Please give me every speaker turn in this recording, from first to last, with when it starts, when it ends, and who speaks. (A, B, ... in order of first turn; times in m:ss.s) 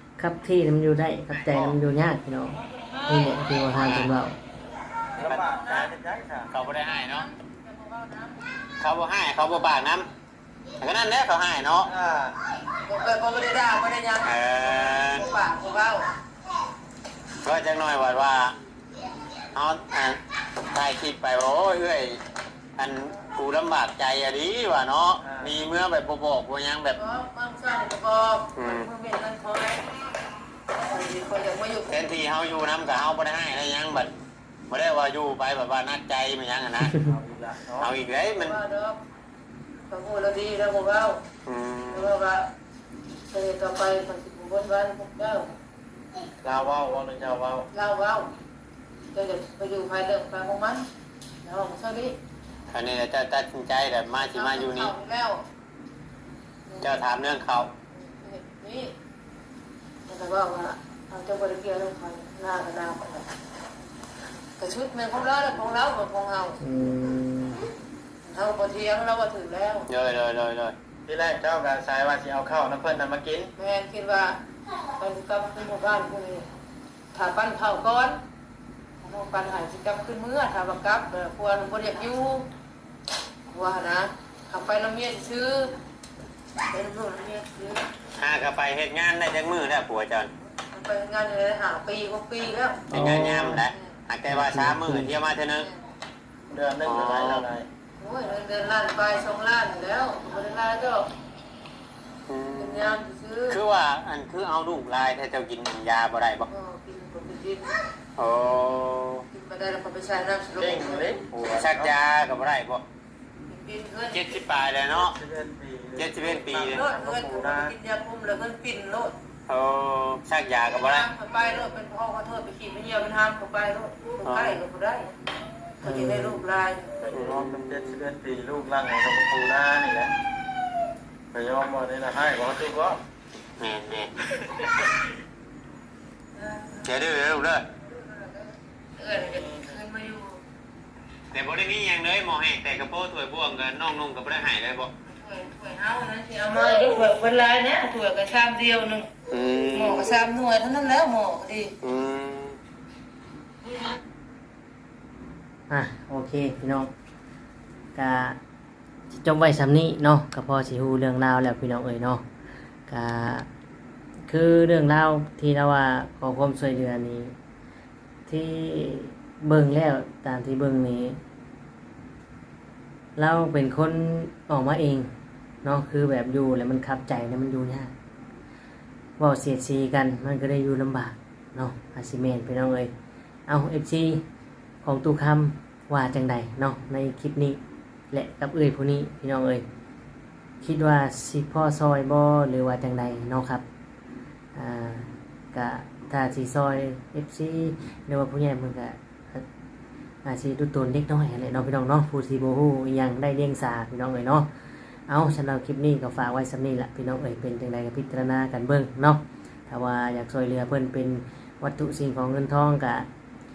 0:00.2-0:04.4 A
0:01.4-0:01.8 B
0:02.6-0:03.4 C
0:03.8-0:04.1 B
0:05.1-0:05.9 C
0:05.2-0:06.5 D
0:06.5-0:07.2 B
0:06.6-0:08.4 C
0:08.8-0:10.1 B
0:10.8-0:11.9 B
0:11.8-0:12.4 D
0:12.9-0:16.1 C
0:14.2-0:15.2 B
0:17.4-0:18.6 B
0:19.5-0:20.2 B
0:20.7-0:22.2 B
0:22.8-0:27.0 B
0:25.2-0:25.6 D
0:26.9-0:29.8 C
0:28.6-0:28.9 B
0:30.8-0:32.0 C
0:31.9-0:34.1 B
0:34.7-0:37.0 B
0:37.0-0:37.9 D
0:37.8-0:38.6 B
0:38.4-0:39.0 C
0:39.9-0:41.2 C
0:41.4-0:42.1 B
0:41.9-0:42.5 C
0:43.3-0:45.6 C
0:46.4-0:47.7 D
0:47.7-0:48.3 C
0:49.1-0:50.8 C
0:51.4-0:52.2 C
0:52.7-0:54.9 B
0:54.2-0:55.4 C
0:56.7-0:57.0 C
0:56.8-0:57.7 B
0:57.9-0:58.9 C
1:00.1-1:03.3 C
1:04.6-1:06.6 C
1:06.6-1:07.7 A
1:08.2-1:09.9 C
1:09.9-1:10.7 B
1:11.0-1:13.5 D
1:13.6-1:14.4 C
1:15.0-1:16.5 C
1:17.1-1:18.2 C
1:19.0-1:22.5 C
1:23.5-1:25.8 C
1:26.7-1:27.8 C
1:28.2-1:30.3 B
1:30.7-1:32.9 C
1:32.9-1:33.6 A
1:32.9-1:35.7 B
1:34.3-1:35.2 A
1:36.5-1:37.6 D
1:36.8-1:37.4 B
1:38.0-1:41.1 C
1:42.3-1:43.0 B
1:42.6-1:43.6 C
1:43.5-1:46.5 B
1:46.5-1:47.8 C
1:48.2-1:49.2 B
1:49.3-1:51.2 C
1:50.6-1:51.9 D
1:51.5-1:52.8 B
1:53.5-1:54.4 C
1:54.1-1:55.1 B
1:54.9-1:57.7 D
1:56.0-1:56.8 B
1:56.6-1:59.1 C
1:59.5-2:01.0 B
2:00.8-2:05.1 C
2:04.2-2:04.6 B
2:05.8-2:07.0 C
2:05.8-2:06.4 A
2:07.0-2:10.1 D
2:07.1-2:08.0 B
2:11.3-2:13.0 D
2:13.6-2:14.6 B
2:16.4-2:16.9 C
2:16.8-2:17.6 B
2:17.7-2:20.4 C
2:21.3-2:24.9 B
2:25.0-2:29.1 C
2:29.3-2:30.1 B
2:29.7-2:31.8 C
2:31.8-2:32.6 B
2:33.6-2:34.0 C
2:35.7-2:36.9 A
2:37.9-2:38.4 A
2:39.1-2:42.2 A
2:42.9-2:43.5 A
2:44.3-2:47.3 A
2:48.3-2:51.2 A
2:53.2-2:55.1 A
2:55.6-2:57.9 A
2:59.2-3:02.9 A
3:03.5-3:04.2 A
3:04.8-3:07.6 A
3:08.1-3:09.6 A
3:10.6-3:13.6 A
3:14.5-3:19.4 A
3:20.2-3:24.5 A
3:25.1-3:33.1 A